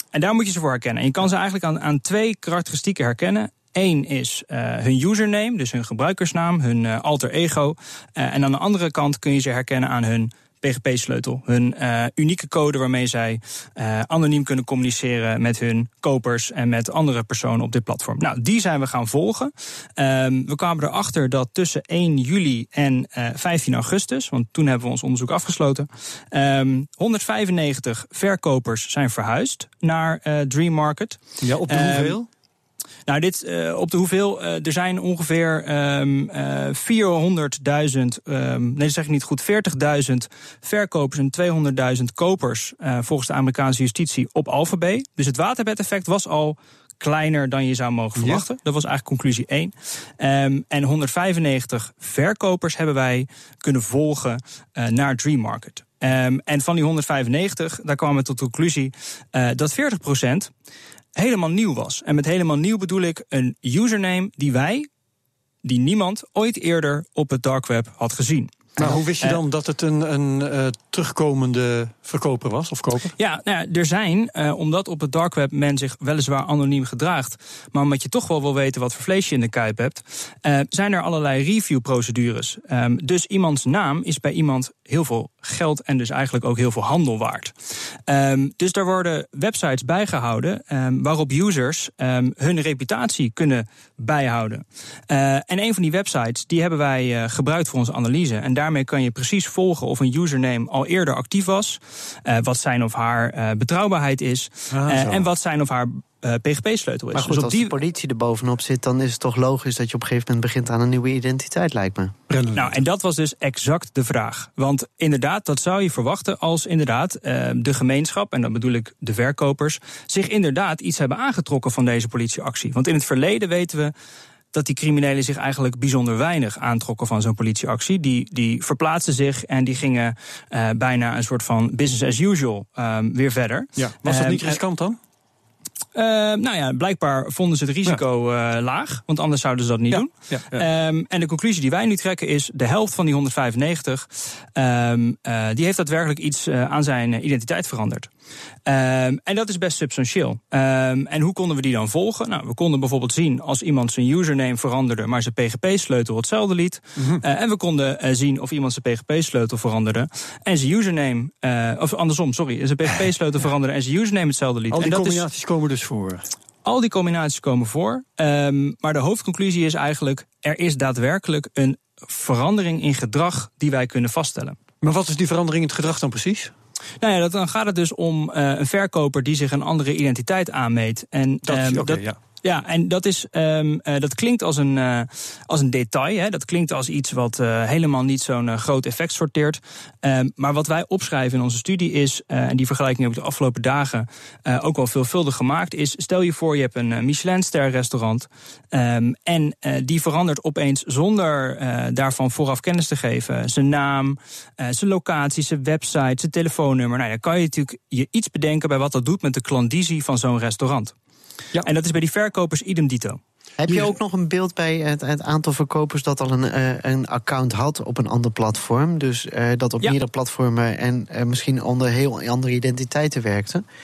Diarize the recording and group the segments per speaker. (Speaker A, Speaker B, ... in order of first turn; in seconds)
Speaker A: 0.1-32.2, 33.1-60.5, 61.2-64.9, 65.6-69.4, 73.2-87.5, 88.1-107.7, 112.5-123.9, 124.5-134.6, 135.9-148.1, 148.7-165.2, 166.6-174.6, 177.0-210.9, 211.6-213.2
Speaker B: 31.4-32.3, 48.2-48.4, 68.8-73.1, 104.7-105.3, 112.3-112.8, 133.8-135.0, 139.9-140.7, 157.0-157.2, 164.7-166.3, 174.8-176.5, 181.5-182.2
Speaker C: 107.1-112.1, 213.6-223.6